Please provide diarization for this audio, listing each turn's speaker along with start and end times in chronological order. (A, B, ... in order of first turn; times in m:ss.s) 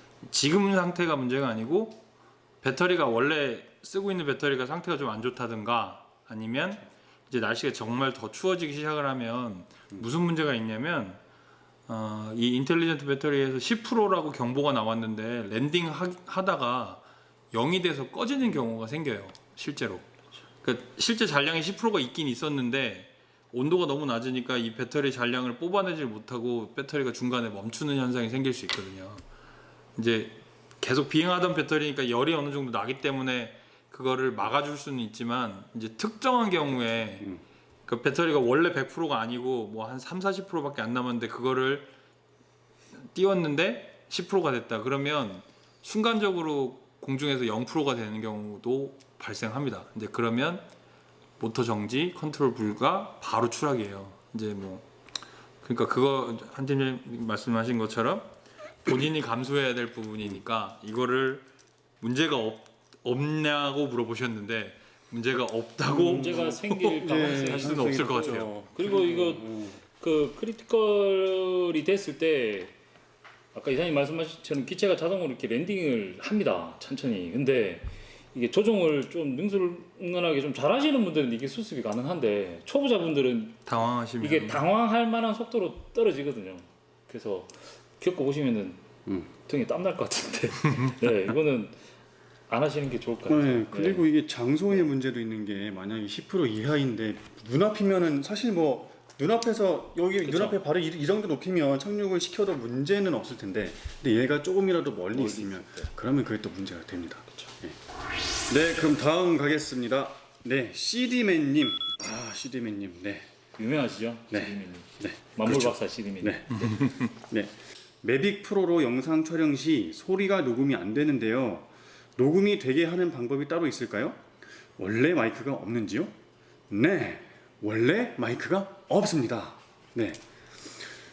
0:00.2-0:02.0 A
0:02.6-0:11.2 A
0:11.9-0:17.0 A
0:17.5-0:20.1 A
0:20.6-0:29.2 A
0:30.0-0:37.3 A
0:37.9-0:41.9 A
0:43.0-0:50.6 A
0:51.4-0:54.9 A
0:55.6-0:58.3 A
0:58.8-1:01.5 A
1:02.0-1:08.5 A
1:05.9-1:09.8 B
1:06.0-1:12.7 C
1:13.5-1:23.6 C
1:23.7-1:24.6 A
1:24.2-1:31.8 C
1:32.5-1:34.1 C
1:33.3-1:47.8 B
1:40.2-1:40.6 C
1:45.1-1:45.9 C
1:48.5-1:53.3 B
1:53.6-1:56.8 C
1:54.3-2:04.2 B
1:56.6-1:57.1 A
2:04.8-2:06.1 B
2:06.7-2:10.2 B